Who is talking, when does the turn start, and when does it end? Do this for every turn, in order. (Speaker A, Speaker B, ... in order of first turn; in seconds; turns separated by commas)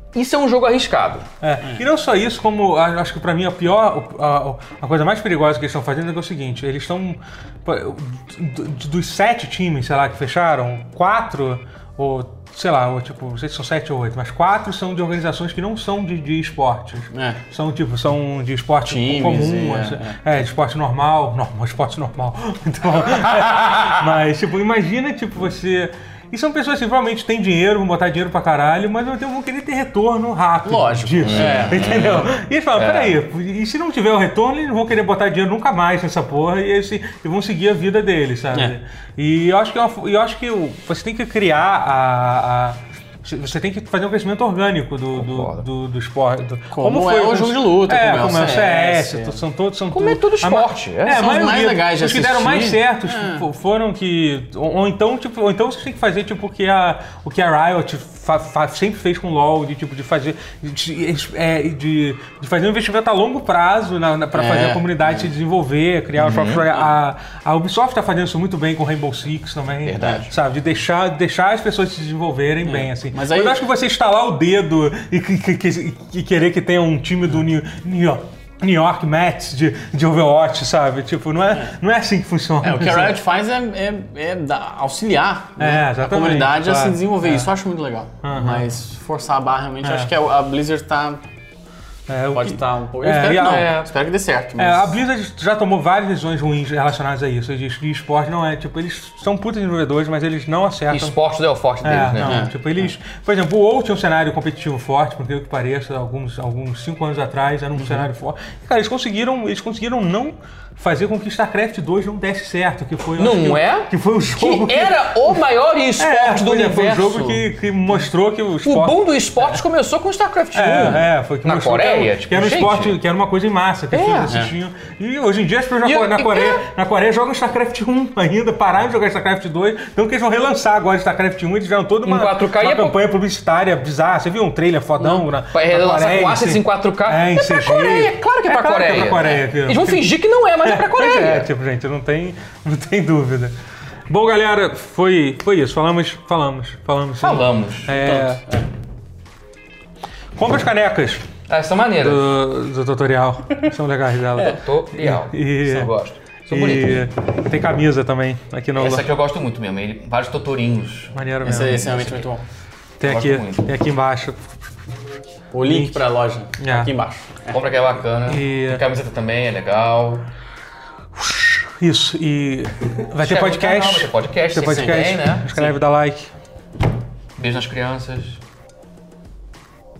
Speaker A: 0.1-1.3, Speaker B: 1.4-83.2, Speaker C: 1.6-1.9, Speaker C: 17.1-17.4, Speaker C: 18.9-20.2, Speaker A: 23.4-24.0, Speaker C: 30.6-32.2, Speaker A: 31.2-33.2, Speaker A: 45.1-45.6, Speaker C: 46.7-49.4, Speaker A: 49.9-51.3, Speaker C: 51.1-53.5, Speaker C: 64.3-65.3, Speaker A: 66.2-66.7, Speaker A: 69.8-70.3, Speaker C: 70.0-70.3, Speaker C: 72.6-73.6, Speaker C: 81.5-81.8, Speaker C: 82.6-91.2, Speaker B: 85.6-87.5, Speaker B: 88.2-88.7, Speaker B: 89.8-90.1, Speaker B: 92.1-93.7, Speaker C: 92.3-95.0, Speaker A: 93.5-93.9, Speaker B: 94.6-101.2, Speaker A: 100.9-102.4, Speaker B: 101.8-115.4, Speaker C: 102.2-102.9, Speaker A: 113.2-117.5, Speaker B: 116.0-119.6, Speaker A: 118.6-123.0, Speaker B: 120.5-140.1, Speaker A: 123.9-124.4, Speaker C: 124.3-124.5, Speaker A: 125.8-126.6, Speaker A: 132.0-132.9, Speaker A: 135.0-141.5, Speaker B: 140.6-143.6, Speaker B: 144.1-148.4, Speaker A: 147.2-148.0, Speaker C: 147.9-148.7, Speaker B: 150.4-151.3, Speaker A: 151.5-152.3, Speaker B: 152.0-155.9, Speaker A: 154.3-157.0, Speaker B: 156.5-159.1, Speaker A: 158.8-162.3, Speaker B: 161.1-161.9, Speaker C: 161.4-162.4, Speaker B: 163.0-164.5, Speaker A: 163.0-163.7, Speaker C: 165.5-167.6, Speaker B: 165.6-166.1, Speaker B: 166.6-166.9, Speaker A: 167.5-170.3, Speaker B: 168.3-168.8, Speaker B: 171.1-176.3, Speaker A: 173.2-175.7, Speaker C: 174.6-174.9, Speaker A: 177.4-178.4